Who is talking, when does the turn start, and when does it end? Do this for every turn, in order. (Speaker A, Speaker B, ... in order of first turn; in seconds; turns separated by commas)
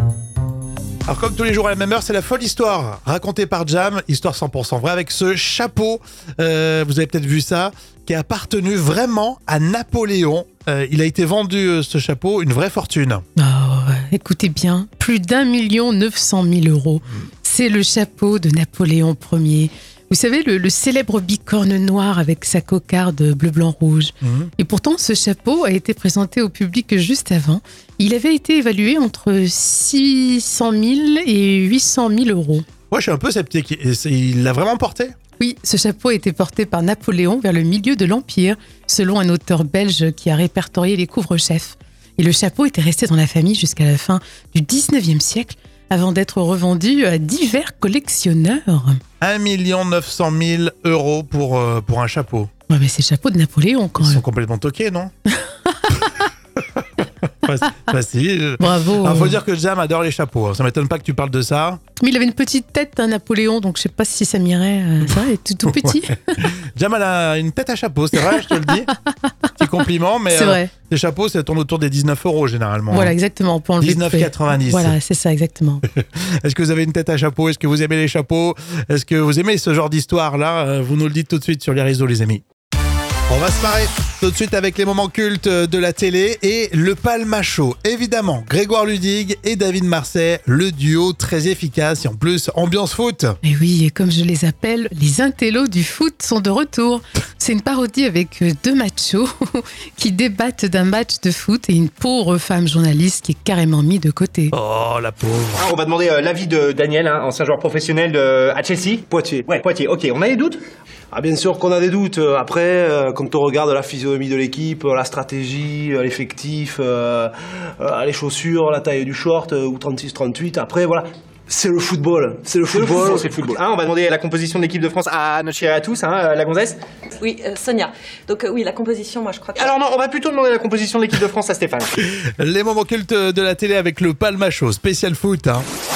Speaker A: 1.1-13.2, Speaker B: 13.4-32.6, Speaker A: 24.2-24.5, Speaker A: 32.9-35.1, Speaker B: 35.4-49.0, Speaker A: 49.2-52.5, Speaker B: 52.7-54.2, Speaker A: 54.0-55.1, Speaker B: 55.3-56.0, Speaker A: 56.8-61.8, Speaker B: 58.6-59.4, Speaker B: 62.0-66.5, Speaker A: 65.0-68.9, Speaker A: 69.6-73.1, Speaker B: 70.3-70.7, Speaker B: 72.9-75.8, Speaker A: 73.8-75.0, Speaker A: 75.9-82.4, Speaker A: 83.3-93.4, Speaker B: 93.4-104.5, Speaker A: 104.5-105.7, Speaker C: 105.6-110.6, Speaker D: 109.1-109.5, Speaker D: 111.1-123.4, Speaker C: 122.7-126.8, Speaker E: 127.2-129.7, Speaker C: 129.6-131.9, Speaker A: 132.0-135.7